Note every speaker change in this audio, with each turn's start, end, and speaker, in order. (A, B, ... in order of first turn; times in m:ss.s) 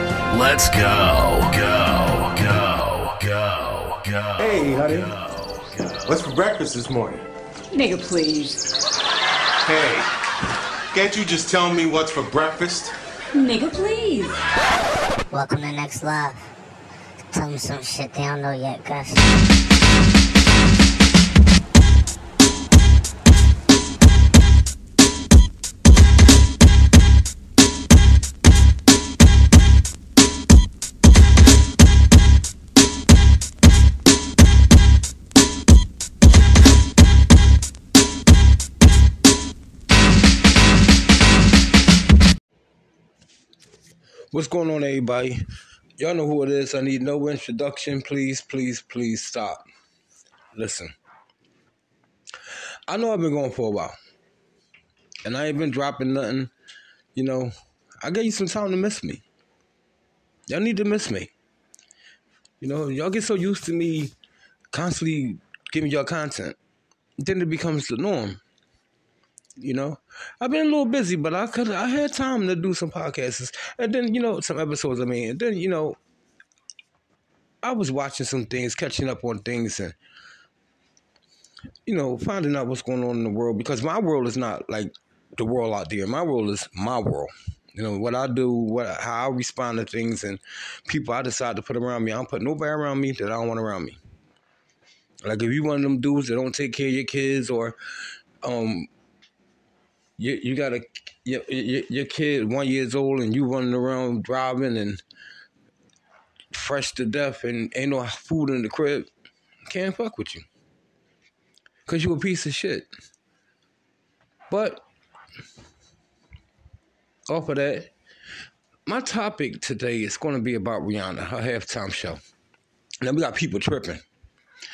0:00.3-0:06.0 A
0:04.4-0:05.1 B
0:06.0-0:07.3 B
0:07.7-0:08.7 C
0:09.6-0:10.1 B
0:10.9-0:12.9 B
0:13.3-0:14.4 C
0:15.3-0:16.4 D
0:17.3-0:19.2 D
0:44.3-0:45.4 E
0:46.0-0:49.6 E
0:50.5-0:50.9 E
0:52.9-0:53.9 E
0:55.2-0:56.5 E
0:57.2-0:59.2 E
1:00.5-1:01.3 E
1:02.6-1:04.1 E
1:04.7-1:06.6 E
1:07.2-1:08.4 E
1:09.6-1:16.0 E
1:17.6-1:20.0 E
1:21.9-1:34.0 E
1:35.2-1:37.8 E
1:38.4-1:38.9 E
1:40.2-1:45.0 E
1:46.5-1:49.1 E
1:49.7-1:50.5 E
1:51.9-1:52.9 E
1:54.5-1:54.8 E
1:57.3-1:57.9 E
1:58.9-2:02.2 E
2:03.0-2:04.0 E